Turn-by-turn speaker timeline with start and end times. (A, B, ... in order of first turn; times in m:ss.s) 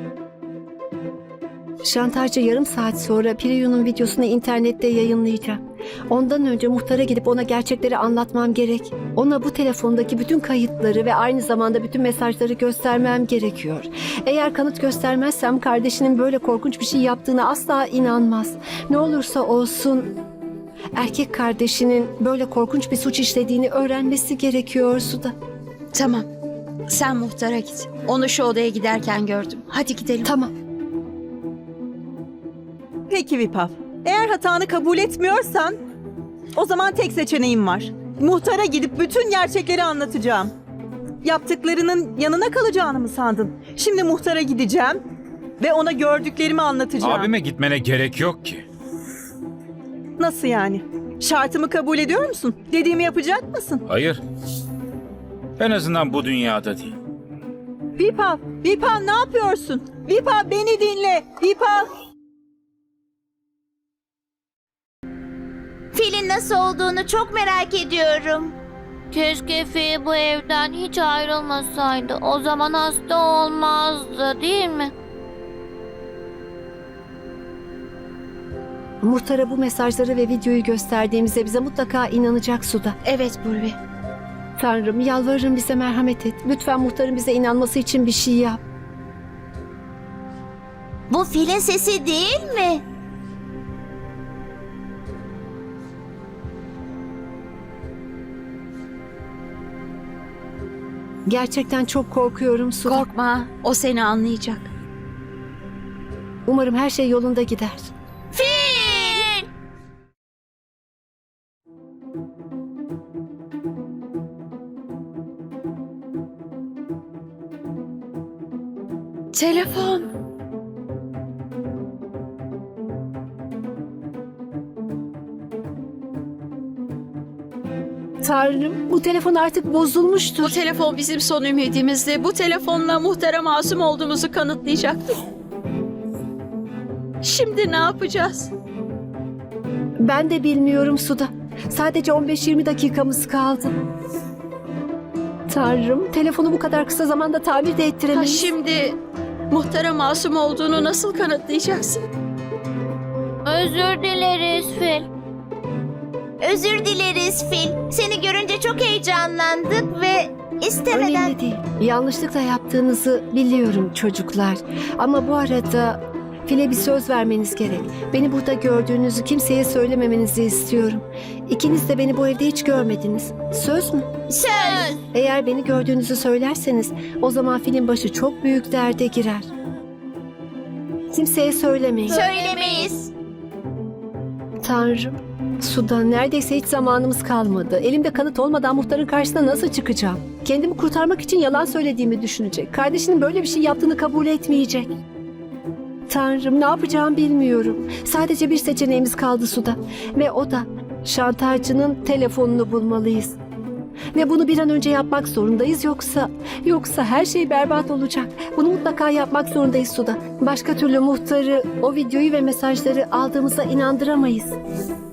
0:01.8-0:20.1 A
0:20.9-0:25.3 A
0:25.9-0:26.2 B
0:26.9-0:30.3 B
0:30.2-0:30.5 A
0:33.1-0:35.8 C
0:36.5-0:40.5 C
0:41.2-0:45.0 C
0:45.6-0:47.3 C
0:47.0-0:48.6 D
0:50.2-0:53.8 C
0:53.8-0:54.2 D
0:55.6-0:56.9 D
0:58.0-1:01.9 C
1:05.9-1:08.5 E
1:09.1-1:14.9 F
1:19.0-1:23.0 A
1:23.0-1:23.7 B
1:24.6-1:28.6 A
1:31.1-1:32.8 E
1:41.3-1:43.0 A
1:42.8-1:44.7 B
1:46.5-1:47.9 A
1:48.3-1:49.4 E
1:59.3-2:00.1 B
2:08.2-2:10.6 A
2:10.4-2:15.2 B
2:17.2-2:18.5 B
2:20.0-2:23.7 A
2:25.5-2:28.5 A
2:28.1-2:29.0 B
2:29.5-2:32.0 B
2:33.4-2:35.1 F
2:36.4-2:41.3 E
2:40.9-2:54.1 A
2:54.3-2:55.0 E
2:55.1-2:59.5 A
3:01.1-3:02.2 A
3:02.1-3:03.1 E
3:04.6-3:14.9 A
3:16.1-3:23.4 A
3:24.1-3:34.5 A